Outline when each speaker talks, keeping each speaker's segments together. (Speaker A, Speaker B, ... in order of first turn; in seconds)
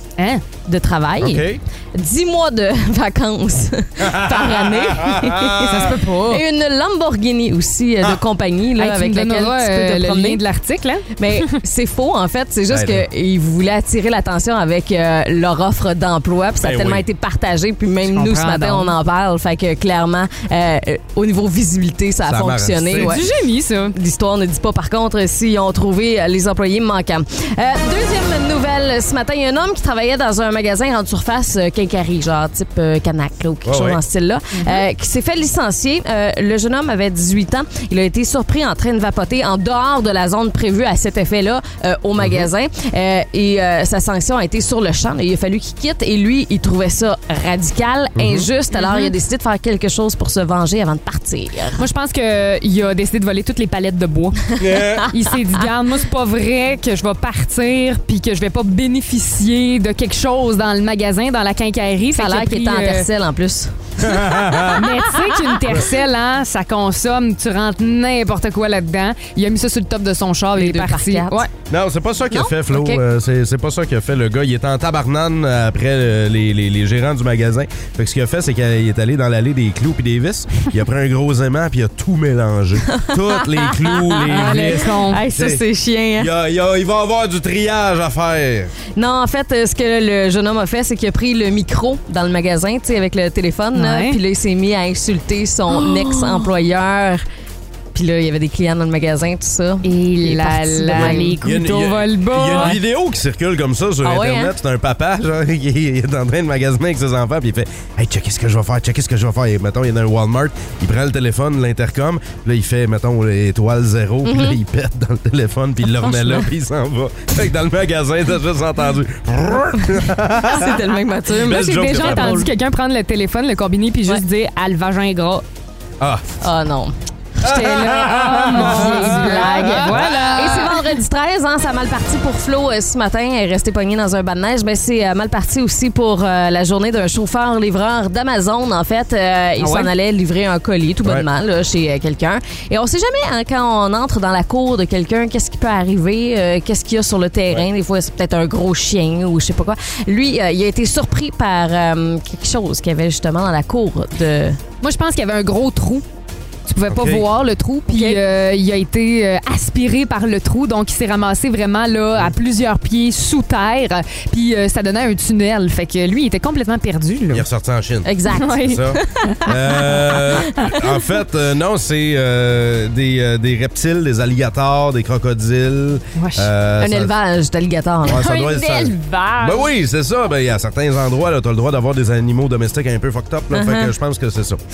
Speaker A: 0.2-0.4, 5.6-6.4, 8.8-11.4, 18.1-18.9, 23.0-23.9, 34.5-34.8, 48.7-49.1, 51.8-54.5, 55.1-63.1, 64.7-71.5, 72.7-73.0, 84.3-85.2, 93.8-94.2, 95.7-96.5, 99.8-102.8, 121.6-125.5, 127.4-130.8, 139.6-139.9, 154.8-156.0, 156.7-167.5, 168.3-169.5, 176.2-176.5, 178.1-179.7
Speaker B: 0.7-10.4, 11.2-23.2, 23.9-51.8, 62.1-65.4, 70.5-71.5, 82.8-86.3, 89.0-97.2, 97.9-101.4, 104.0-104.6, 114.2-114.6, 115.8-116.5, 120.0-122.5, 126.4-126.9, 128.5-154.6, 157.9-158.2, 168.0-170.8, 176.8-178.7, 183.5-184.0
Speaker C: 1.2-1.6, 4.0-5.9, 12.7-13.1, 16.6-17.1, 22.3-23.2, 33.6-34.0, 42.2-42.5, 48.2-48.5, 54.6-55.1, 64.0-64.8, 71.7-85.6, 86.2-88.7, 100.9-120.8, 121.4-122.5, 127.4-130.3, 156.9-157.2, 167.3-168.1, 168.6-177.1, 178.1-184.6